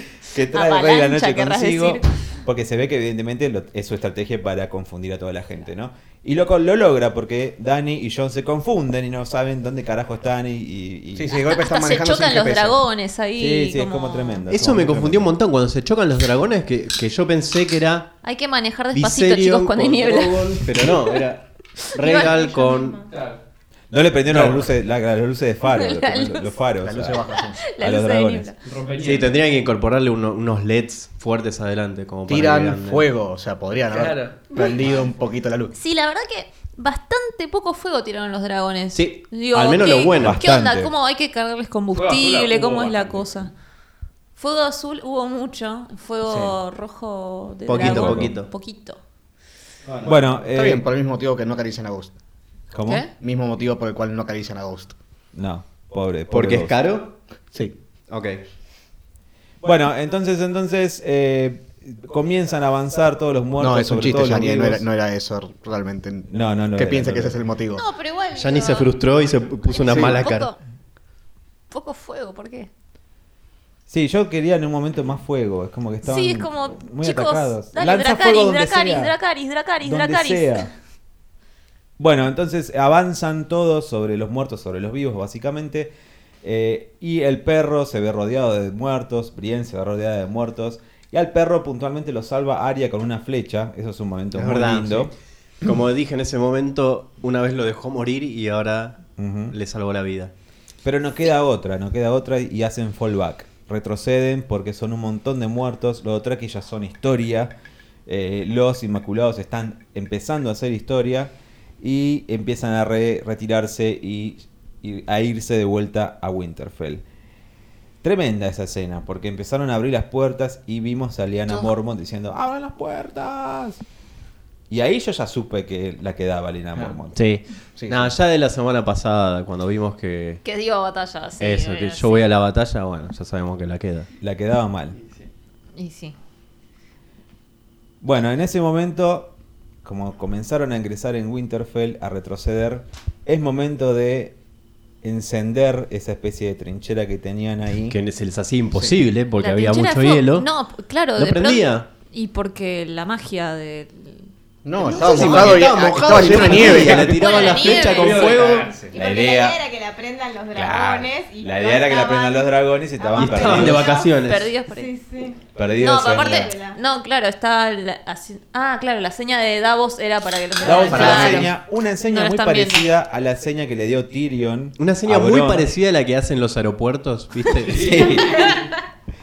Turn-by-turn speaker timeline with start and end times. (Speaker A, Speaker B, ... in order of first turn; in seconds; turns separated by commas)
Speaker A: 0.2-11.3, Speaker B: 0.5-2.1, Speaker C: 11.1-12.8, Speaker B: 11.4-14.4, Speaker A: 13.4-15.3, Speaker D: 14.5-18.1, Speaker B: 18.2-21.1, Speaker D: 18.9-23.0, Speaker B: 21.8-22.9, Speaker E: 22.2-23.0, Speaker F: 23.1-23.4, Speaker A: 23.9-27.2, Speaker D: 24.3-24.6, Speaker B: 25.7-26.5, Speaker C: 26.8-27.6, Speaker B: 27.6-28.6, Speaker A: 27.8-28.5, Speaker F: 28.6-29.3, Speaker D: 29.0-33.1, Speaker C: 32.3-35.7, Speaker F: 33.9-34.5, Speaker B: 35.7-43.5, Speaker D: 38.9-40.4, Speaker A: 40.1-40.9, Speaker F: 41.9-43.3, Speaker B: 44.4-49.0, Speaker C: 46.2-46.5, Speaker D: 47.7-48.5, Speaker A: 47.8-48.3, Speaker F: 49.8-50.3, Speaker A: 50.0-50.8, Speaker C: 50.5-52.1, Speaker A: 52.7-53.0, Speaker B: 52.9-53.1, Speaker C: 53.1-54.9, Speaker A: 55.3-56.8, Speaker D: 56.3-57.1, Speaker D: 58.1-58.4, Speaker A: 59.6-64.8, Speaker C: 63.6-67.8, Speaker A: 66.3-67.4, Speaker B: 67.7-68.9, Speaker D: 68.3-70.5, Speaker B: 69.7-70.6, Speaker C: 69.9-70.2, Speaker B: 71.7-72.7, Speaker A: 73.9-79.1, Speaker B: 76.0-80.7, Speaker A: 79.8-80.7, Speaker A: 82.0-85.9, Speaker A: 86.4-95.1, Speaker D: 94.3-100.3, Speaker A: 99.2-99.5, Speaker A: 100.8-107.5, Speaker A: 108.0-117.0, Speaker A: 118.0-123.8, Speaker A: 124.7-127.2, Speaker D: 127.1-130.4, Speaker C: 127.8-128.1, Speaker B: 130.4-132.3, Speaker D: 131.4-134.1, Speaker A: 134.2-135.0, Speaker B: 135.8-136.2, Speaker A: 138.0-144.3, Speaker A: 145.0-148.0, Speaker D: 147.9-150.5, Speaker B: 149.4-154.3, Speaker D: 151.2-151.9, Speaker C: 154.6-157.3, Speaker D: 154.8-158.8, Speaker B: 154.9-155.6, Speaker B: 156.4-158.5, Speaker F: 157.8-159.0, Speaker E: 158.9-164.1, Speaker A: 158.9-159.6, Speaker A: 160.5-163.9, Speaker D: 163.1-164.5, Speaker B: 163.5-164.9, Speaker E: 164.7-165.4, Speaker A: 165.5-166.5, Speaker B: 165.8-171.5, Speaker E: 166.0-166.8, Speaker A: 170.6-175.7, Speaker D: 170.7-171.5, Speaker B: 172.1-172.9, Speaker D: 174.8-178.0, Speaker A: 177.7-178.5